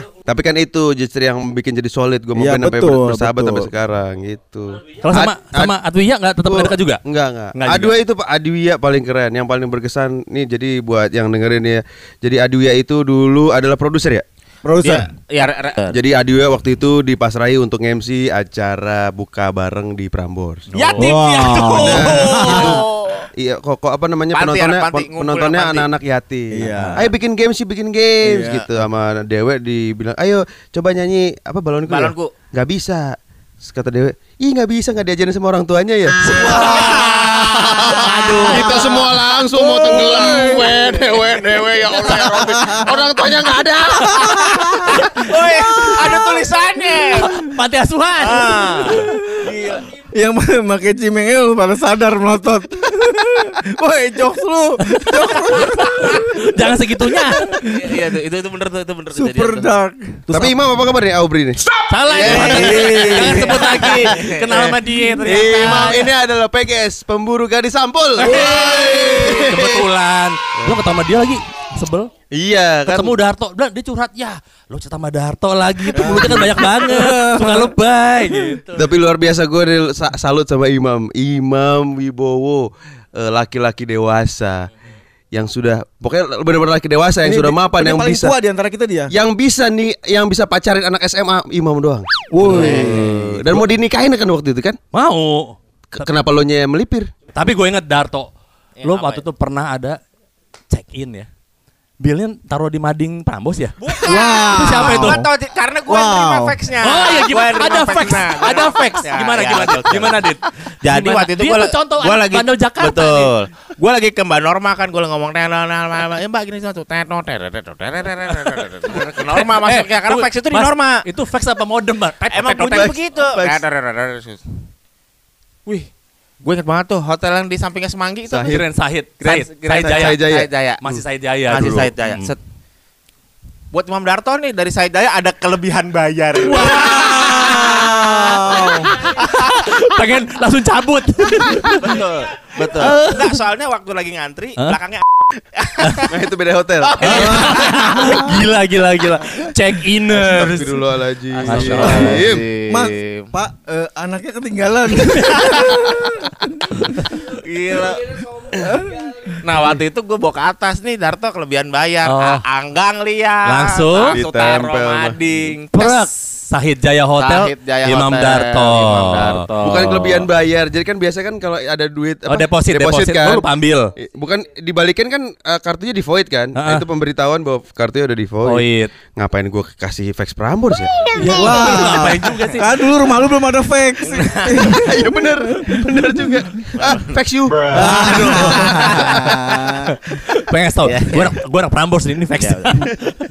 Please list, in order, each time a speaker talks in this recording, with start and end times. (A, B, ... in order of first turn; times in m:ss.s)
0:00.2-0:05.8 A
0:02.4-0:03.7 B
0:05.0-0:07.0 C
0:06.4-0:14.2 A
0:07.5-0:08.0 C
0:14.6-0:15.1 B
0:14.8-0:16.0 D
0:15.9-0:20.7 A
0:20.7-0:21.2 C
0:20.7-0:23.3 D
0:21.0-0:22.8 B
0:21.8-0:44.2 A
0:24.3-0:25.9 D
0:26.5-0:27.1 B
0:26.6-0:27.0 C
0:28.2-0:28.7 B
0:31.9-0:32.3 D
0:36.3-0:36.8 B
0:36.3-0:39.0 D
0:36.4-0:37.2 C
0:37.8-0:38.8 C
0:38.4-0:39.0 B
0:39.5-0:40.7 B
0:39.9-0:42.0 D
0:42.0-0:42.9 B
0:43.9-0:45.0 B
0:44.0-0:47.3 D
0:45.6-0:46.5 B
0:47.2-0:49.1 C
0:48.2-0:49.8 D
0:49.6-0:56.6 B
0:54.8-0:57.6 C
0:57.6-0:59.7 D
0:59.1-1:00.6 B
1:00.3-1:03.3 A
1:01.9-1:06.1 C
1:02.2-1:04.8 D
1:02.3-1:03.7 B
1:05.2-1:09.8 A
1:05.6-1:05.9 D
1:08.2-1:12.1 C
1:12.3-1:13.2 A
1:12.9-1:18.8 C
1:15.9-1:17.7 B
1:18.7-1:24.7 A
1:25.3-1:28.4 A
1:27.2-1:29.1 B
1:29.1-1:34.8 A
1:32.3-1:33.7 B
1:32.4-1:33.0 D
1:34.9-1:36.1 C
1:35.9-1:37.1 A
1:37.3-1:38.3 C
1:38.8-1:39.2 D
1:38.8-1:40.0 C
1:40.7-1:41.3 C
1:42.0-1:43.8 C
1:43.8-2:01.0 D
1:44.0-1:45.3 B
1:44.5-1:45.2 C
1:45.9-1:46.6 B
1:46.8-1:53.3 C
1:59.3-2:02.9 C
2:02.3-2:04.4 D
2:02.6-2:03.6 A
2:06.4-2:08.6 D
2:08.3-2:08.6 A
2:08.5-2:10.2 C
2:09.2-2:10.8 D
2:09.8-2:11.0 A
2:10.8-2:12.3 C
2:11.5-2:12.4 D
2:11.6-2:11.9 A
2:13.7-2:17.2 D
2:16.4-2:22.0 C
2:17.3-2:18.9 B
2:21.8-2:25.0 D
2:22.7-2:23.2 C
2:25.6-2:26.0 D
2:26.1-2:27.4 A
2:26.8-2:28.0 D
2:27.0-2:30.8 C
2:27.1-2:28.3 B
2:30.1-2:32.4 A
2:31.3-2:33.3 D
2:31.4-2:32.2 C
2:31.8-2:36.8 B
2:35.1-2:35.8 D
2:37.2-2:38.2 D
2:38.6-2:39.2 B
2:39.4-2:46.1 D
2:42.0-2:42.4 C
2:43.4-2:44.2 C
2:44.1-2:45.5 A
2:45.7-2:50.2 C
2:47.2-2:50.0 D
2:49.6-2:53.5 A
2:52.3-2:53.9 C
2:54.0-3:00.9 A
2:56.6-2:56.8 C
2:58.4-2:58.9 C
3:01.2-3:02.7 C
3:01.2-3:06.5 B
3:04.0-3:04.8 D
3:04.8-3:07.7 A
3:06.8-3:07.1 D
3:07.7-3:09.9 B
3:07.7-3:13.2 C
3:08.7-3:09.0 D
3:10.8-3:11.4 D
3:12.4-3:12.9 D